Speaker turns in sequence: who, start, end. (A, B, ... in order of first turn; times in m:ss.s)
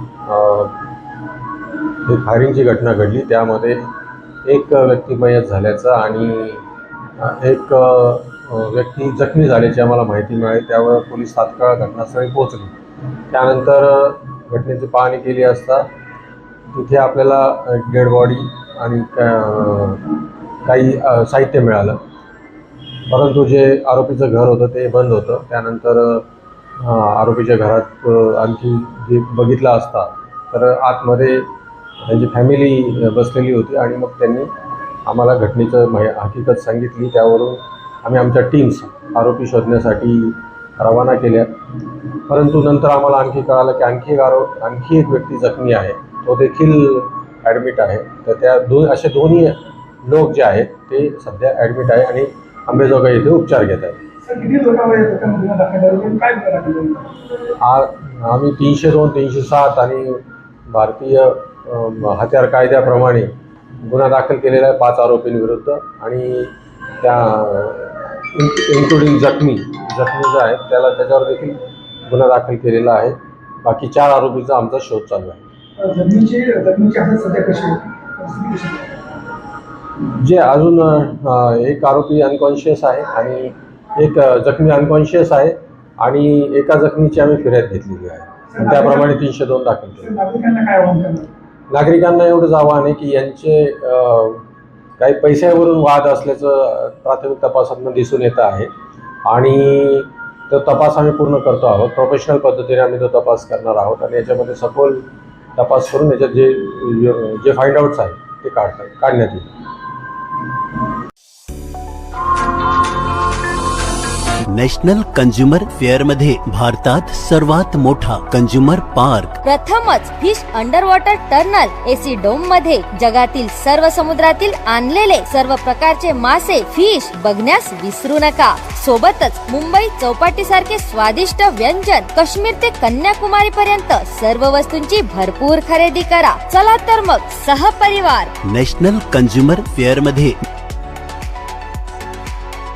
0:00.3-0:00.9 A
0:01.9-0:03.9 A
0:04.4-0:06.6 A
0:07.2-0:12.7 A
0:13.3-0:15.9 A
0:16.7-0:22.0 A
0:23.1-0:26.3 A
0:26.8-0:31.5 A
0:32.0-0:34.5 A
0:35.0-0:54.0 A
0:54.2-0:57.1 B
0:57.6-1:03.3 A
1:03.8-1:15.5 A
1:15.8-1:18.9 B
1:20.0-1:30.1 A
1:28.5-1:29.2 B
1:30.0-1:31.3 B
1:31.7-1:34.4 A
1:35.0-1:38.7 A
1:39.2-1:49.6 A
1:54.5-1:59.3 C
1:59.4-2:18.3 D
2:18.4-2:20.4 C